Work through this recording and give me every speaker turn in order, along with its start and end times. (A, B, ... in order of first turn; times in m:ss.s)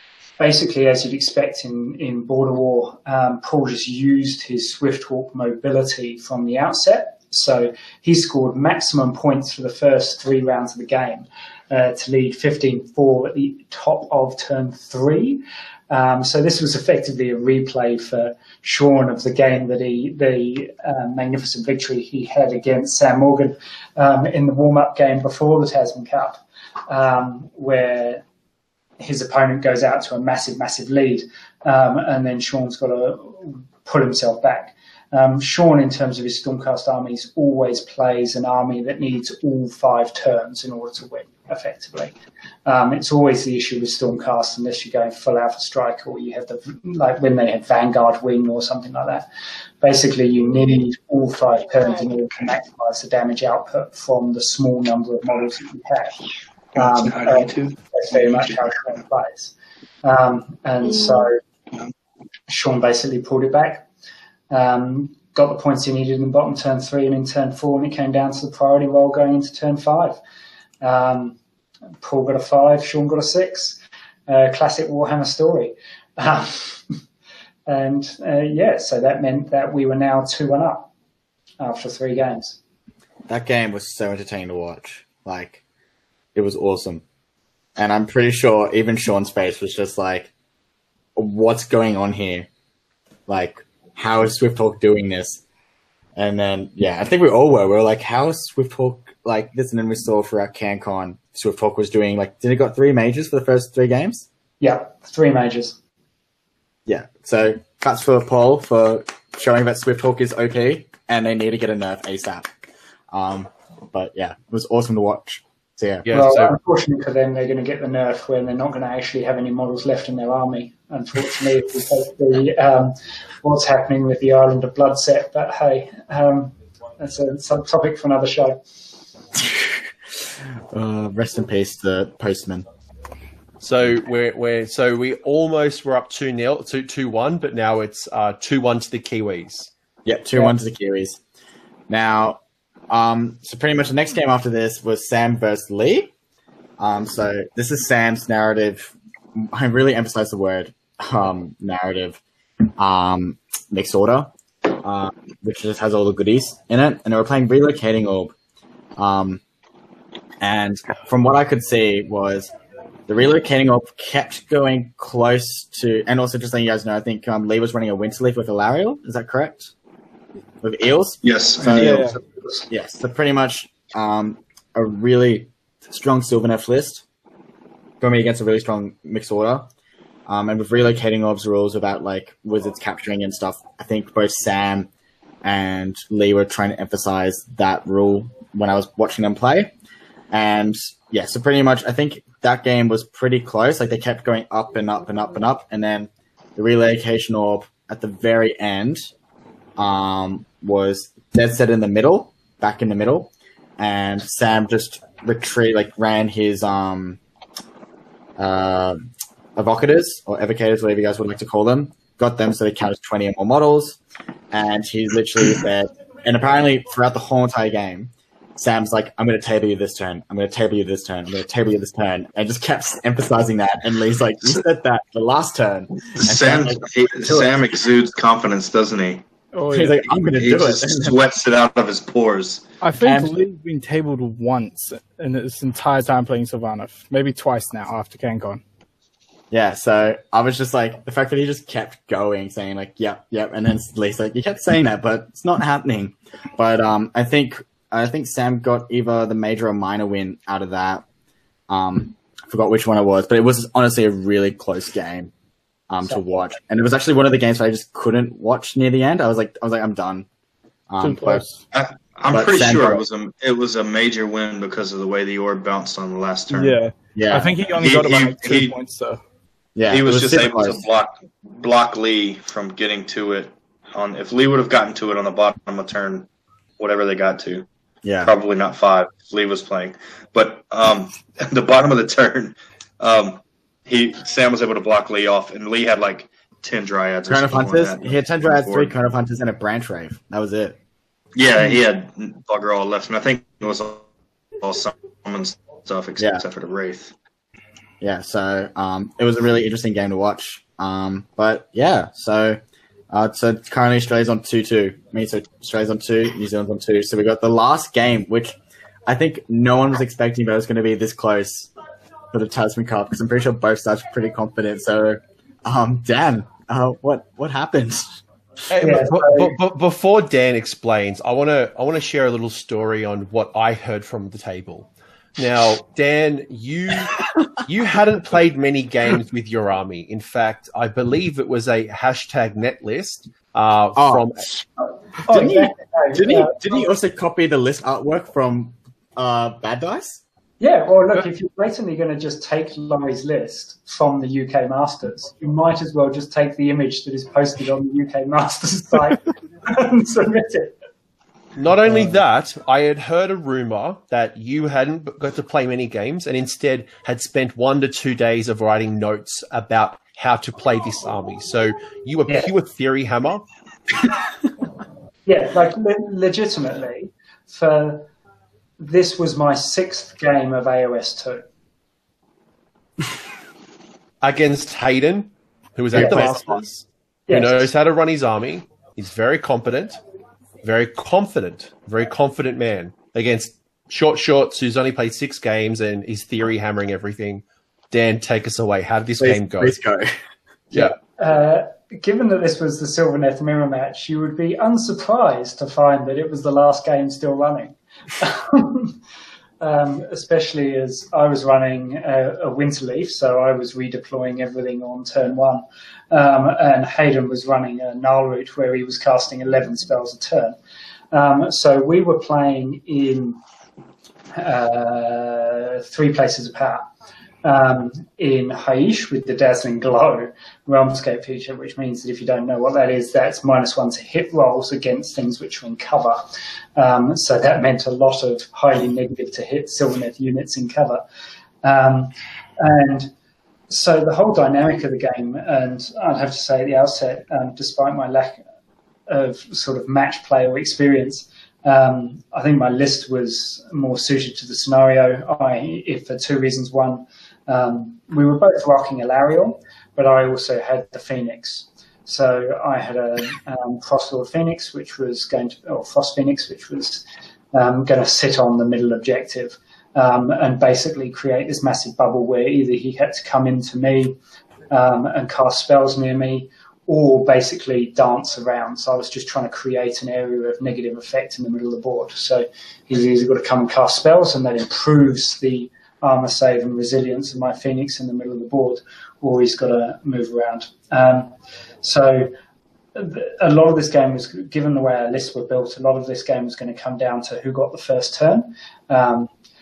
0:00.4-0:28.2 A
0:29.0-0:42.1 A
0:42.6-0:49.2 A
0:49.8-0:56.2 A
0:56.8-0:59.5 A
0:56.8-0:58.6 B
1:00.0-1:01.4 A
1:02.5-1:03.8 A
1:04.5-1:10.2 A
1:10.8-1:11.4 A
1:12.0-1:16.8 A
1:17.7-1:20.9 A
1:21.6-1:22.6 A
1:23.3-1:25.6 C
1:26.3-1:27.0 C
1:27.8-1:30.3 C
1:31.2-1:32.5 C
1:33.3-1:35.4 C
1:36.2-1:44.2 C
1:44.6-1:45.8 A
1:46.8-1:52.5 C
1:53.1-1:56.1 C
1:56.0-1:56.5 D
1:56.1-2:08.6 A
2:10.7-2:12.6 C
2:13.6-2:19.7 D
2:20.0-2:21.2 C
2:21.9-2:26.1 C
2:26.8-2:32.2 C
2:32.8-2:38.3 C
2:39.0-2:39.4 C
2:40.4-2:42.5 C
2:43.1-2:49.7 C
2:50.6-2:52.1 C
2:51.2-2:52.2 B
2:51.7-2:52.2 E
2:52.7-2:57.0 C
2:58.0-2:59.7 C
3:00.3-3:04.9 C
3:05.4-3:09.7 C
3:10.3-3:19.1 C
3:19.8-3:27.2 C
3:28.4-3:34.0 C
3:34.5-3:47.5 C
3:46.1-3:49.2 B
3:49.5-3:50.0 E
3:49.7-3:51.2 C
3:50.4-3:52.7 B
3:52.8-3:58.6 E
3:53.0-3:53.3 C
3:59.5-4:11.0 C
4:11.7-4:15.3 C
4:15.9-4:20.3 C
4:20.9-4:21.4 C
4:21.0-4:21.6 E
4:21.7-4:26.8 B
4:22.3-4:23.0 C
4:26.5-4:29.2 E
4:27.1-4:27.5 C
4:27.8-4:28.8 B
4:29.8-4:30.8 C
4:29.9-4:36.3 B
4:36.8-4:37.6 B
4:38.0-4:38.3 C
4:38.2-4:48.9 B
4:47.3-4:50.8 C
4:51.4-4:54.1 B
4:54.6-4:57.1 B
4:56.2-4:56.4 C
4:58.0-5:08.5 C
5:09.1-5:11.7 C
5:12.3-5:18.2 C
5:18.7-5:34.4 D
5:18.8-5:19.5 A
5:34.0-5:34.6 C
5:35.2-5:36.8 A
5:35.2-5:40.2 C
5:40.6-5:50.7 A
5:51.5-6:03.4 D
6:05.2-6:08.1 A
6:08.8-6:11.4 A
6:14.2-6:20.0 D
6:15.9-6:16.6 C
6:16.0-6:16.3 A
6:17.3-6:17.7 A
6:20.6-6:29.8 D
6:29.2-6:30.2 C
6:30.7-6:31.0 D
6:30.8-6:39.0 A
6:39.6-6:50.6 A
6:51.1-6:53.4 A
6:54.3-6:56.9 A
6:57.4-7:11.0 A
7:11.6-7:13.1 A
7:13.7-7:18.4 A
7:19.1-7:44.2 A
7:44.7-8:02.3 A
8:02.9-8:09.3 A